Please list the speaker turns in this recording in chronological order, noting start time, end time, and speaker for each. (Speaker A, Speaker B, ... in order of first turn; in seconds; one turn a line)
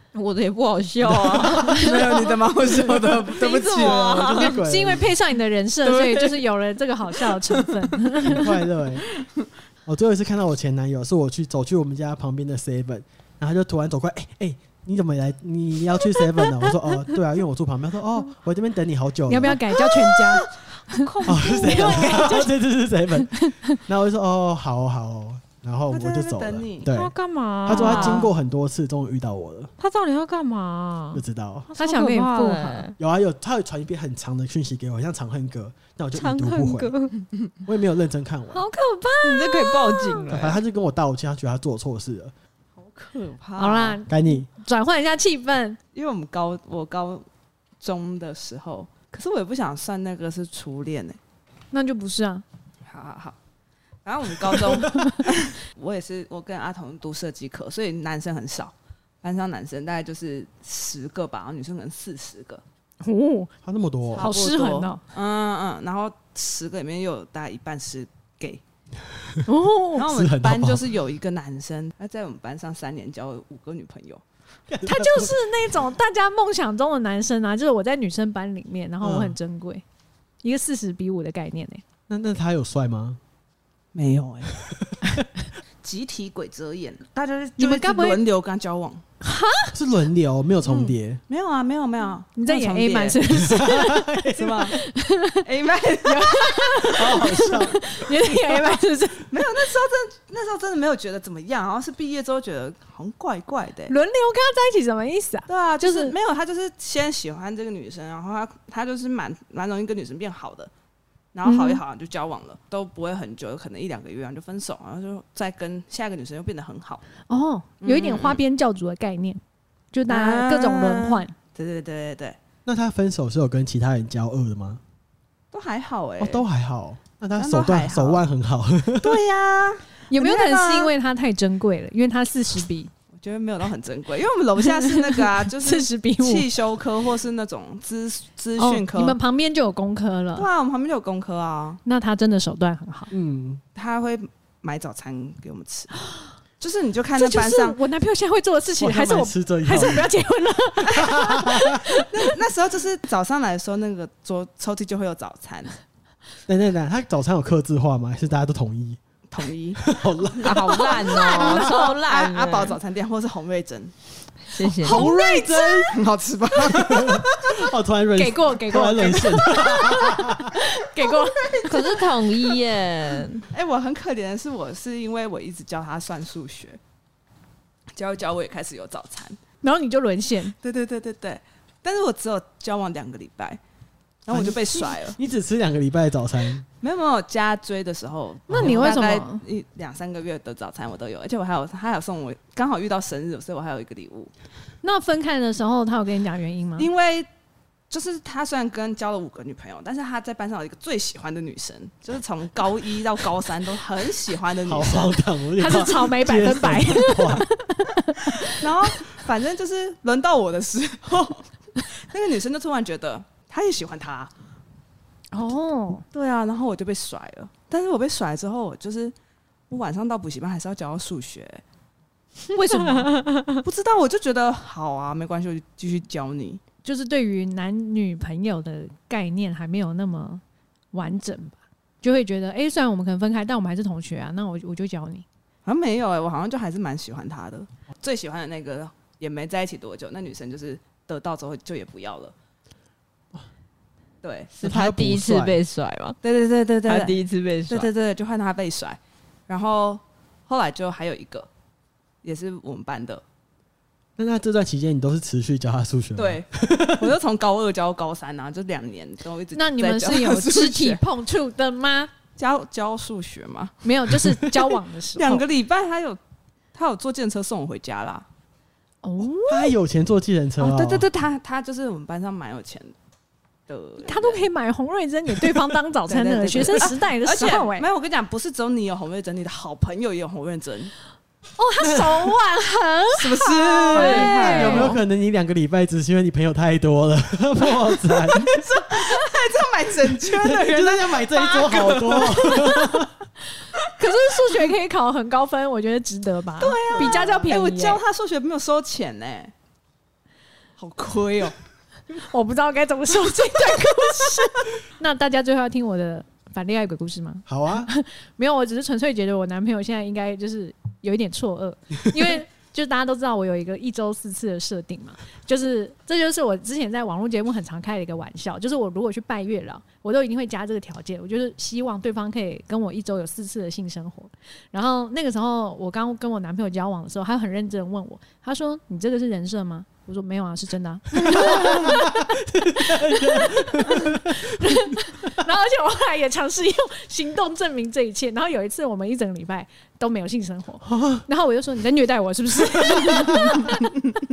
Speaker A: 0.1-2.2
Speaker B: 1.0-3.3
Speaker C: 1.7-4.4
Speaker A: 3.2-4.6
Speaker B: 4.1-5.1
Speaker D: 4.4-8.5
Speaker C: 5.8-6.4
Speaker C: 7.2-7.8
Speaker B: 8.2-9.1
Speaker B: 9.9-19.9
Speaker D: 19.3-21.0
Speaker A: 20.9-22.3
Speaker B: 21.2-29.7
Speaker D: 21.6-22.5
Speaker D: 23.3-23.8
Speaker C: 25.9-26.9
Speaker A: 26.9-28.3
Speaker C: 27.7-28.3
Speaker A: 29.8-33.0
Speaker B: 31.1-31.7
Speaker D: 31.8-32.9
Speaker B: 33.0-36.9
Speaker A: 36.1-37.2
Speaker B: 37.6-38.6
Speaker D: 38.5-40.1
Speaker A: 39.2-40.6
Speaker B: 40.3-42.3
Speaker C: 42.8-44.0
Speaker D: 43.6-45.8
Speaker B: 44.1-44.5
Speaker C: 45.9-47.3
Speaker C: 47.8-51.2
Speaker D: 51.7-52.4
Speaker C: 52.9-53.4
Speaker C: 54.0-62.6
Speaker D: 54.9-55.2
Speaker D: 63.0-63.5
Speaker B: 63.6-64.3
Speaker C: 64.1-68.6
Speaker D: 64.2-65.0
Speaker D: 69.5-70.1
Speaker C: 70.0-74.2
Speaker B: 70.1-70.8
Speaker B: 74.7-75.4
Speaker D: 74.8-79.8
Speaker B: 79.0-79.4
Speaker D: 80.4-81.8
Speaker B: 82.1-83.2
Speaker C: 84.0-84.6
Speaker B: 84.6-85.3
Speaker C: 85.8-89.0
Speaker D: 87.6-88.2
Speaker D: 89.2-89.7
Speaker B: 89.7-91.2
Speaker C: 90.7-93.2
Speaker D: 92.4-94.2
Speaker B: 93.4-94.7
Speaker C: 94.3-94.8
Speaker D: 94.7-95.4
Speaker C: 95.4-97.0
Speaker D: 96.0-99.5
Speaker B: 96.8-97.9
Speaker C: 99.3-103.9
Speaker D: 103.9-106.2
Speaker C: 105.5-110.7
Speaker C: 111.3-117.0
Speaker D: 111.4-111.8
Speaker D: 117.3-119.4
Speaker C: 117.8-118.4
Speaker D: 119.9-121.3
Speaker C: 120.1-122.4
Speaker B: 122.7-124.8
Speaker C: 125.5-126.5
Speaker B: 126.2-129.2
Speaker C: 127.4-128.2
Speaker C: 129.0-130.9
Speaker D: 130.1-132.9
Speaker C: 133.1-139.2
Speaker D: 134.8-136.5
Speaker D: 138.6-140.5
Speaker C: 140.4-141.8
Speaker D: 141.8-143.1
Speaker B: 143.1-143.6
Speaker C: 143.8-146.0
Speaker C: 146.6-147.8
Speaker D: 147.2-152.1
Speaker B: 148.8-150.1
Speaker B: 150.8-151.8
Speaker C: 152.0-155.8
Speaker B: 156.5-159.0
Speaker C: 159.3-163.9
Speaker B: 159.8-161.7
Speaker A: 160.4-162.8
Speaker A: 164.5-165.1
Speaker D: 164.8-165.9
Speaker B: 164.8-165.9
Speaker C: 165.9-167.6
Speaker B: 166.6-170.6
Speaker D: 168.2-171.7
Speaker C: 171.0-172.6
Speaker A: 171.7-173.4
Speaker C: 173.5-176.8
Speaker C: 177.9-179.4
Speaker D: 179.6-180.6
Speaker C: 180.6-183.6
Speaker C: 184.3-185.2
Speaker B: 184.3-186.7
Speaker C: 186.8-194.3
Speaker D: 188.5-189.4
Speaker B: 188.5-188.8
Speaker D: 194.8-196.9
Speaker C: 196.8-197.3
Speaker C: 197.9-205.2
Speaker B: 204.7-207.5
Speaker D: 205.6-208.7
Speaker C: 208.4-214.3
Speaker D: 215.3-216.1
Speaker C: 216.1-219.1
Speaker C: 219.7-221.6
Speaker C: 222.6-226.6
Speaker D: 222.7-223.0
Speaker A: 223.1-223.5
Speaker D: 226.8-235.2
Speaker C: 235.7-242.3
Speaker C: 244.2-244.5
Speaker A: 244.5-246.2
Speaker B: 244.6-245.6
Speaker C: 246.2-251.5
Speaker A: 246.9-247.9
Speaker C: 252.2-253.2
Speaker B: 254.2-257.1
Speaker C: 256.2-261.0
Speaker D: 259.6-262.1
Speaker C: 262.4-263.9
Speaker D: 263.8-265.4
Speaker C: 265.1-266.2
Speaker C: 266.7-268.3
Speaker D: 269.0-269.8
Speaker B: 269.5-271.1
Speaker C: 270.6-272.9
Speaker C: 273.7-274.5
Speaker D: 274.0-277.9
Speaker C: 276.1-280.9
Speaker D: 281.6-285.0
Speaker B: 281.8-282.3
Speaker C: 283.1-285.0
Speaker B: 283.9-288.5
Speaker C: 288.3-292.8
Speaker B: 290.1-293.1
Speaker D: 292.5-292.8
Speaker D: 294.0-298.0
Speaker C: 296.6-299.5
Speaker C: 300.8-301.6
Speaker D: 302.2-343.9
Speaker B: 307.5-307.9
Speaker B: 331.2-334.6
Speaker B: 340.8-341.2
Speaker B: 342.8-343.4